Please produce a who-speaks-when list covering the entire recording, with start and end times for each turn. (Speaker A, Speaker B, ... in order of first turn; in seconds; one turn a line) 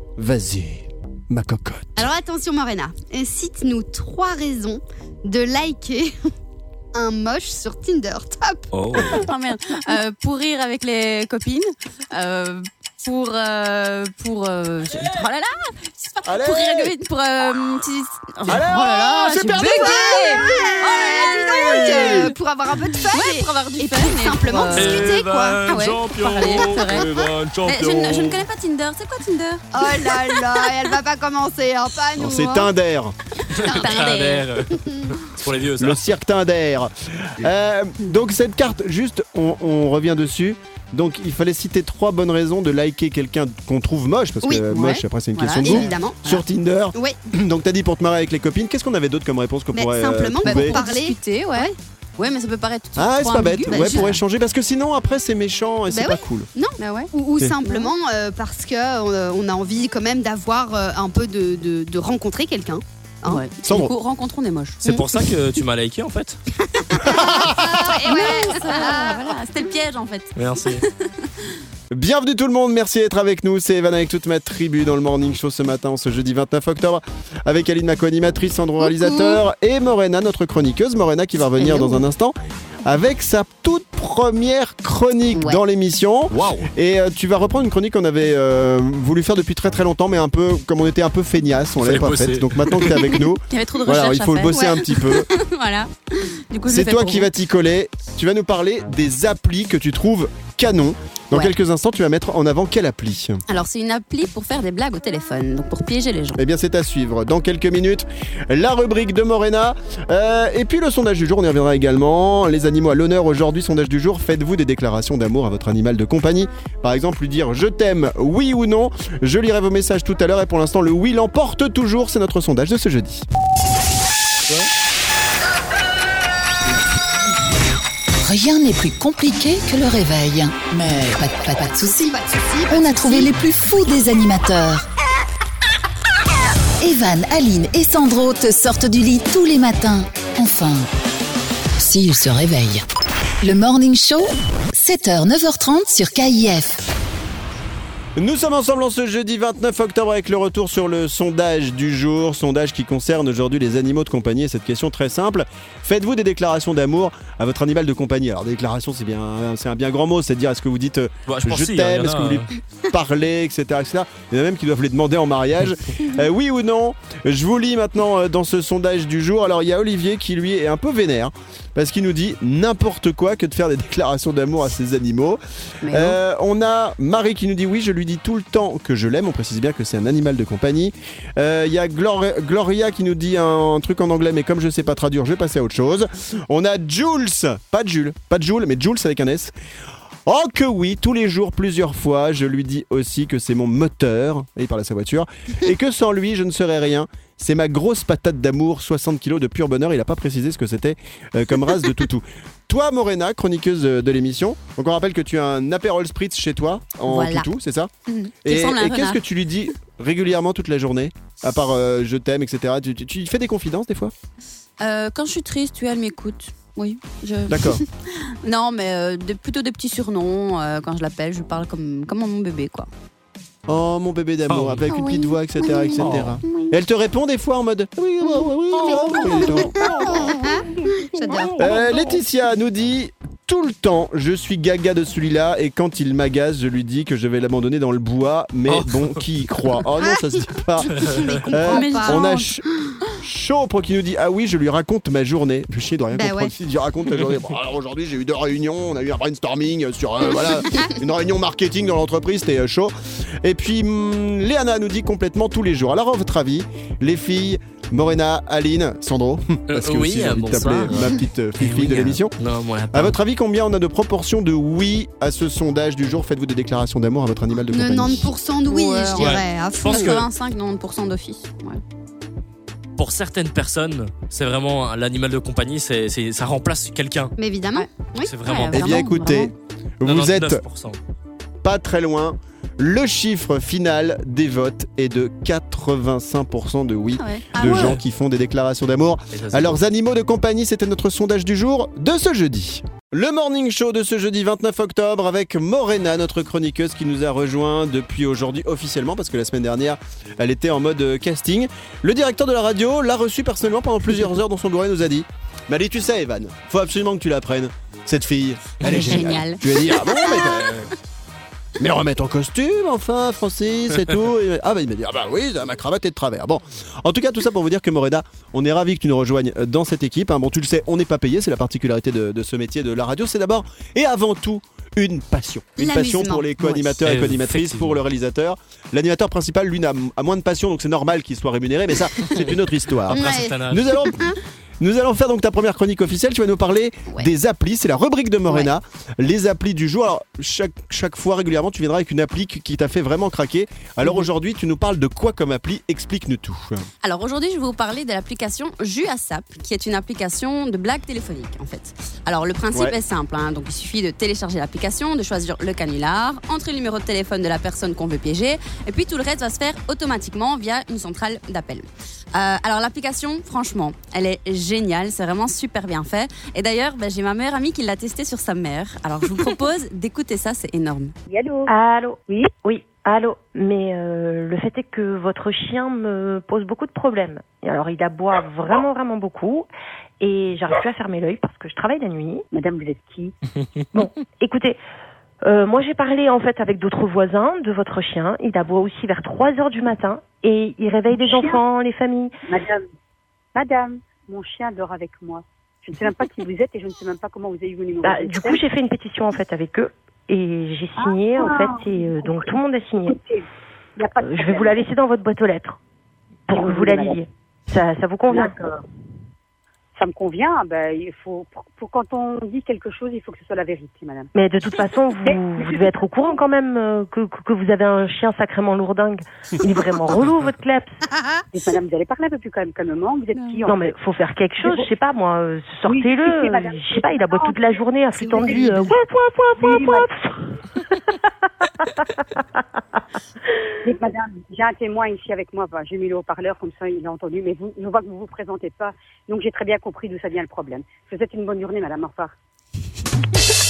Speaker A: 0.2-2.1
Speaker B: 1.9-6.2
Speaker B: 6.9-8.7
Speaker C: 8.7-9.3
Speaker D: 9.1-22.3
Speaker A: 16.2-16.9
Speaker A: 18.4-22.3
Speaker B: 19.5-25.6
Speaker D: 23.1-25.1
Speaker C: 24.7-28.4
Speaker D: 25.6-27.1
Speaker D: 27.6-30.1
Speaker B: 29.7-32.7
Speaker A: 32.2-33.1
Speaker C: 33.5-36.0
Speaker D: 33.6-34.5
Speaker B: 34.8-35.1
Speaker A: 35.8-50.8
Speaker B: 44.4-44.7
Speaker D: 44.7-45.9
Speaker B: 45.6-46.4
Speaker B: 49.7-51.7
Speaker D: 50.4-54.2
Speaker A: 53.0-56.5
Speaker B: 53.7-54.1
Speaker B: 55.9-63.4
Speaker D: 56.8-57.1
Speaker D: 57.6-57.9
Speaker D: 63.2-64.8
Speaker A: 63.6-63.9
Speaker C: 64.8-66.4
Speaker B: 66.7-69.3
Speaker A: 67.2-67.8
Speaker D: 67.8-71.5
Speaker C: 70.3-70.8
Speaker A: 71.9-95.3
Speaker B: 78.8-79.4
Speaker D: 81.6-82.0
Speaker D: 85.3-85.6
Speaker C: 86.3-86.7
Speaker C: 91.8-93.0
Speaker D: 93.1-97.3
Speaker A: 96.7-103.4
Speaker D: 103.5-106.4
Speaker A: 106.4-123.2
Speaker E: 128.2-132.1
Speaker B: 131.8-133.3
Speaker E: 132.7-134.9
Speaker E: 136.8-140.9
Speaker E: 141.8-142.8
Speaker E: 143.4-146.8
Speaker A: 148.2-189.5
Speaker C: 161.3-162.5
Speaker D: 175.8-176.2
Speaker A: 190.2-207.9
Speaker D: 207.1-207.5
Speaker D: 208.1-209.2
Speaker A: 208.4-214.1
Speaker D: 214.8-222.9
Speaker A: 217.5-217.8
Speaker A: 223.7-230.5
Speaker C: 224.5-224.8
Speaker D: 224.9-226.7
Speaker C: 226.0-226.4
Speaker B: 228.9-231.6
Speaker A: 231.6-242.6
Speaker C: 238.7-239.2
Speaker B: 240.0-240.4
Speaker B: 240.9-242.3
Speaker C: 240.9-241.2
Speaker D: 241.5-242.5
Speaker A: 243.2-262.4
Speaker B: 246.1-246.5
Speaker C: 259.7-263.2
Speaker A: 262.9-268.3
Speaker B: 267.7-270.2
Speaker D: 268.7-271.8
Speaker C: 269.2-270.2
Speaker C: 273.0-277.3
Speaker B: 277.4-278.3
Speaker C: 278.2-279.0
Speaker D: 278.4-279.5
Speaker A: 278.7-280.6
Speaker C: 280.0-281.0
Speaker A: 281.6-310.9
Speaker D: 287.1-287.7
Speaker B: 287.5-287.9
Speaker C: 287.6-288.0
Speaker C: 289.3-289.8
Speaker D: 308.8-310.6
Speaker A: 311.8-346.9
Speaker B: 325.8-326.9
Speaker C: 327.0-328.0
Speaker C: 333.1-334.0
Speaker B: 333.1-334.4
Speaker D: 347.0-371.1
Speaker F: 371.3-371.7
Speaker G: 371.7-379.7
Speaker G: 380.2-382.4
Speaker F: 382.5-383.3
Speaker G: 383.9-384.8
Speaker G: 385.4-392.3
Speaker F: 391.1-391.6
Speaker F: 392.4-392.8
Speaker F: 393.5-398.6
Speaker G: 398.0-403.2
Speaker F: 401.0-403.4
Speaker F: 404.0-404.8
Speaker G: 404.2-405.8
Speaker G: 406.5-408.5
Speaker F: 406.5-407.2
Speaker F: 408.3-408.8
Speaker F: 409.9-414.3
Speaker G: 414.3-420.9
Speaker F: 415.2-416.3
Speaker F: 421.5-423.9
Speaker G: 423.6-430.3
Speaker F: 424.6-424.9
Speaker F: 425.8-429.0
Speaker B: 428.5-428.8
Speaker F: 429.6-430.1
Speaker F: 433.8-442.3